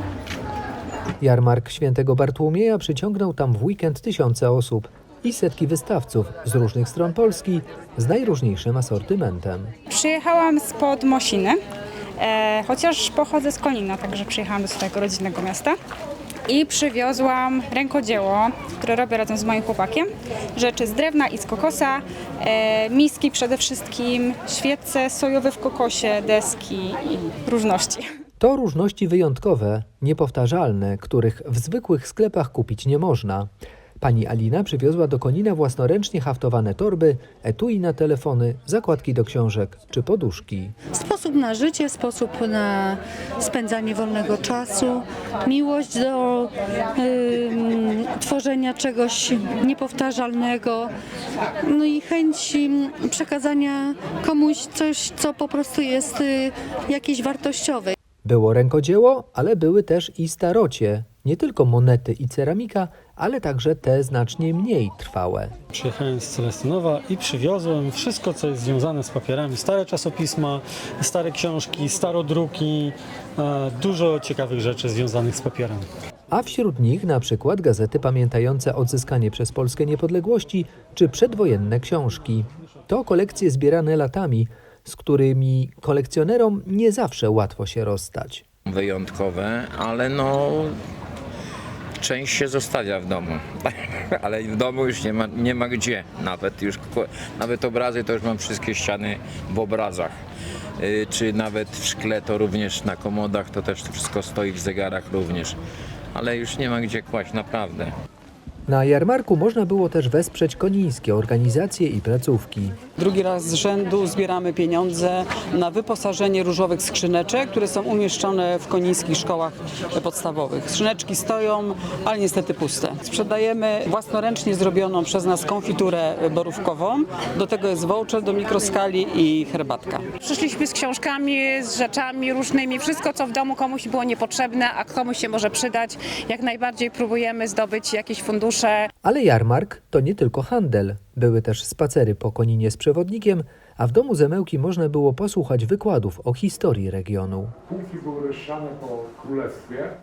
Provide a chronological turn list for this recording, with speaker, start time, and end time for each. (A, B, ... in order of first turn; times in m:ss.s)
0:01.2-0:09.7 A
0:09.9-0:11.6 B
0:12.2-0:15.7 B
0:16.5-0:28.0 B
0:28.4-0:40.7 A
0:40.9-0:50.9 C
0:51.6-0:58.0 C
0:58.2-1:05.5 A
1:05.7-1:15.9 D
1:16.3-1:28.4 A
1:28.6-1:30.8 E
1:32.0-1:40.1 E
1:40.8-1:45.6 E
1:46.1-1:47.9 E
1:48.7-1:52.8 A
1:53.0-2:10.1 F
2:10.3-2:18.7 G
2:19.0-2:27.5 A
2:27.7-2:29.9 H